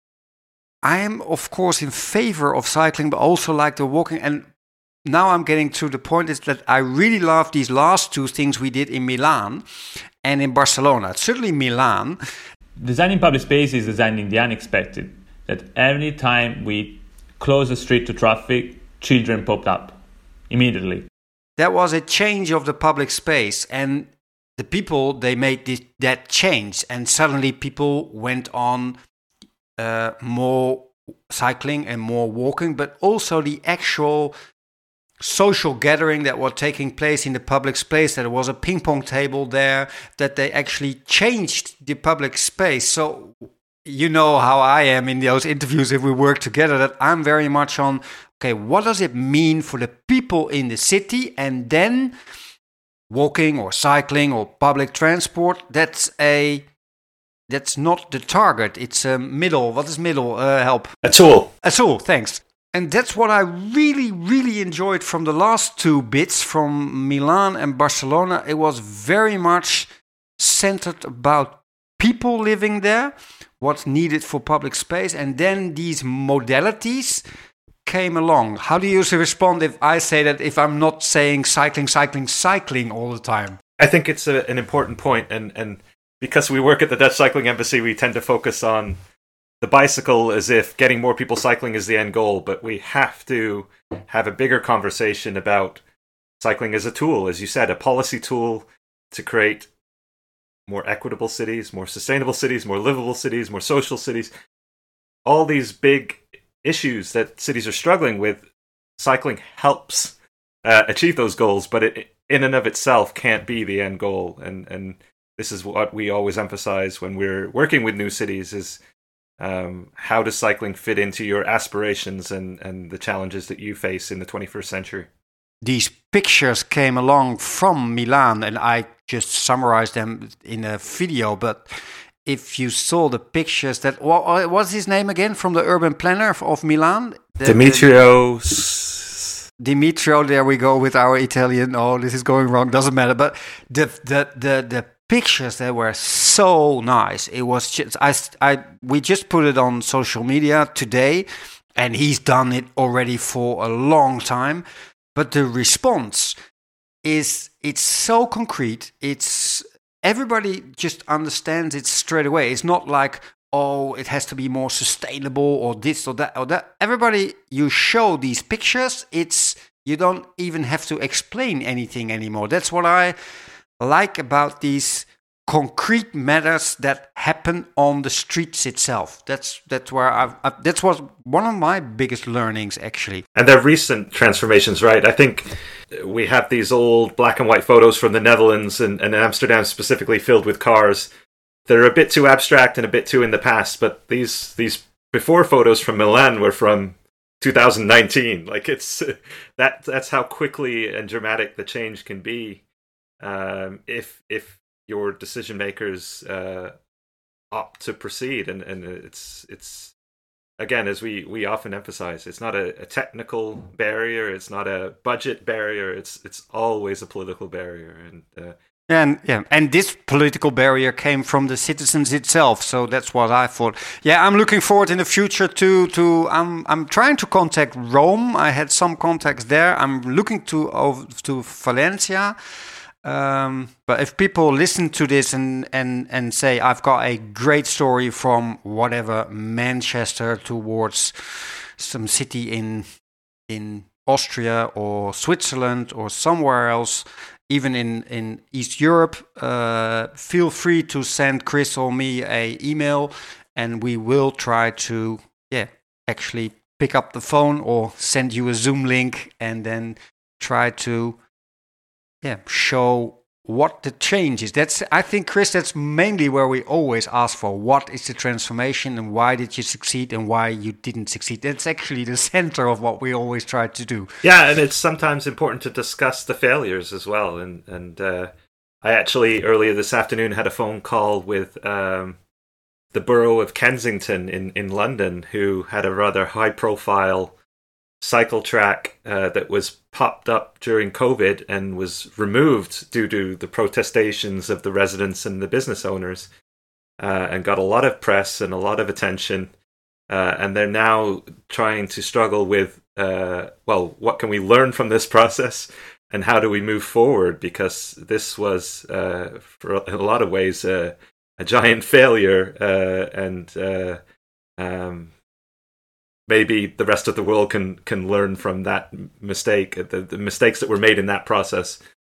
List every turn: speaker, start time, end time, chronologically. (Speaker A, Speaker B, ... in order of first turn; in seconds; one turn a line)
Speaker A: 0.8-4.5
Speaker A: 5.0-9.6
Speaker A: 10.2-12.2
Speaker B: 12.8-21.1
Speaker A: 21.6-29.0
Speaker A: 29.8-34.3
Speaker A: 35.2-52.1
Speaker A: 53.1-56.7
Speaker A: 57.5-61.0
Speaker C: 61.0-61.5
Speaker A: 61.6-77.2
Speaker A: 77.8-83.6
Speaker C: 83.8-89.0
Speaker C: 89.6-95.8
Speaker C: 96.4-99.7
Speaker C: 100.7-104.3
Speaker C: 105.2-108.5
Speaker C: 109.0-118.8
Speaker C: 119.4-125.1
Speaker A: 125.6-131.7
Speaker A: 132.2-137.9
Speaker C: 137.4-139.3
Speaker A: 139.6-154.6
Speaker A: 155.2-156.4
Speaker A: 157.0-173.2
Speaker A: 173.8-183.2
Speaker C: 183.4-191.1
Speaker C: 191.7-202.6
Speaker C: 203.2-206.8
Speaker C: 207.5-209.9
Speaker C: 210.6-218.6
Speaker A: 218.9-232.4
Speaker A: 233.0-242.8
Speaker A: 243.5-261.2
Speaker A: 262.2-274.1
Speaker C: 274.2-278.3
Speaker C: 278.8-282.2
Speaker C: 282.9-287.3
Speaker C: 288.0-296.3
Speaker C: 297.0-299.5
Speaker C: 300.1-314.0
Speaker C: 314.6-315.1
Speaker C: 316.3-321.8